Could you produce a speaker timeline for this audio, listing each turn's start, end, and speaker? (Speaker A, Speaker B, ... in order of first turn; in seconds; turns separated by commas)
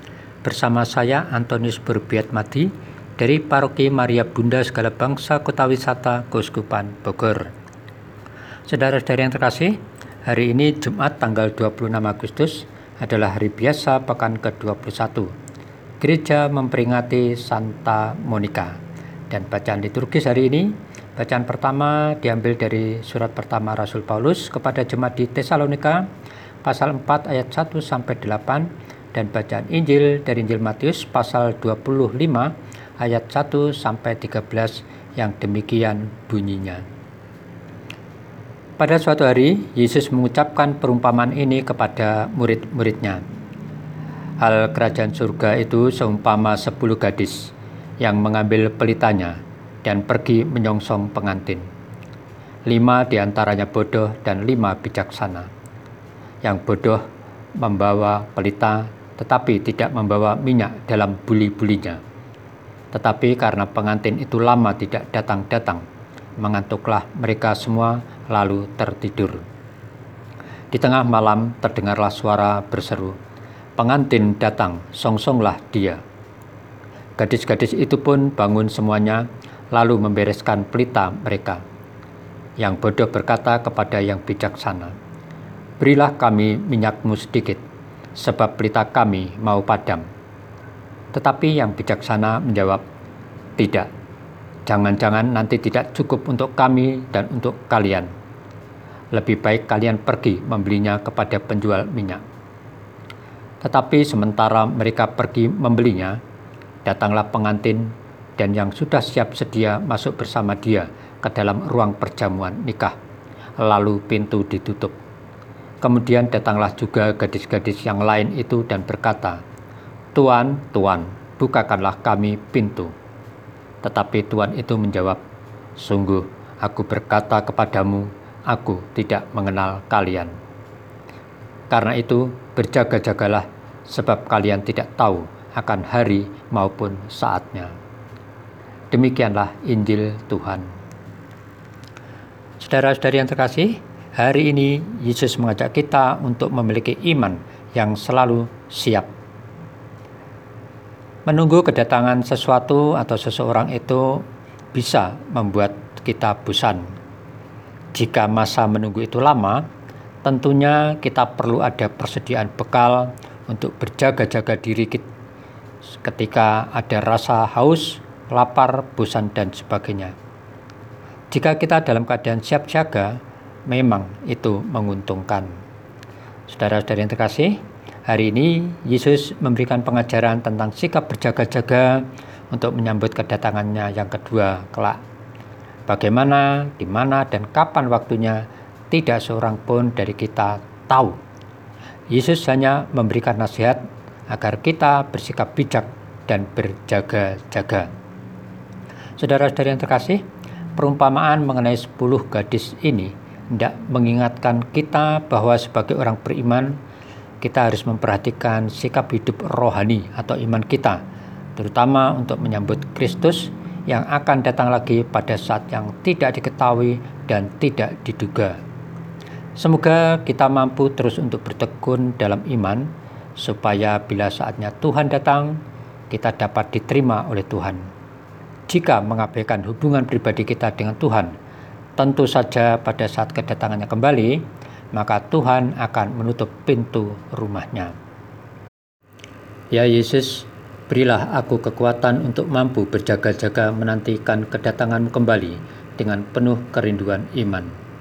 Speaker A: 0.4-7.5, Speaker A: 8.7-15.3, Speaker A: 16.0-18.8, Speaker A: 19.3-26.1, Speaker A: 26.6-36.8, Speaker A: 38.8-43.2, Speaker A: 44.4-51.6, Speaker A: 52.7-55.5, Speaker A: 56.4-57.0, Speaker A: 57.6-62.0, Speaker A: 62.9-65.8, Speaker A: 66.4-69.5, Speaker A: 70.7-73.2, Speaker A: 73.8-76.0, Speaker A: 77.2-81.6, Speaker A: 82.6-84.9, Speaker A: 85.8-87.6, Speaker A: 88.2-90.0, Speaker A: 91.1-92.8, Speaker A: 93.6-93.9, Speaker A: 94.7-98.1, Speaker A: 99.1-102.2, Speaker A: 103.6-106.2, Speaker A: 106.8-113.0, Speaker A: 113.6-115.0, Speaker A: 115.8-119.4, Speaker A: 120.1-122.9, Speaker A: 123.8-125.2, Speaker A: 125.8-130.3, Speaker A: 131.7-137.8, Speaker A: 138.9-140.7, Speaker A: 142.6-149.1, Speaker A: 151.2-156.8, Speaker A: 157.9-159.7, Speaker A: 160.2-165.1, Speaker A: 165.9-170.2, Speaker A: 171.3-175.5, Speaker A: 176.5-185.0, Speaker A: 185.9-191.2, Speaker A: 192.1-197.9, Speaker A: 199.2-200.2, Speaker A: 200.8-206.8, Speaker A: 207.4-211.0, Speaker A: 211.6-218.6, Speaker A: 219.6-225.6, Speaker A: 226.1-227.8, Speaker A: 228.7-231.3, Speaker A: 232.0-237.9, Speaker A: 239.7-247.7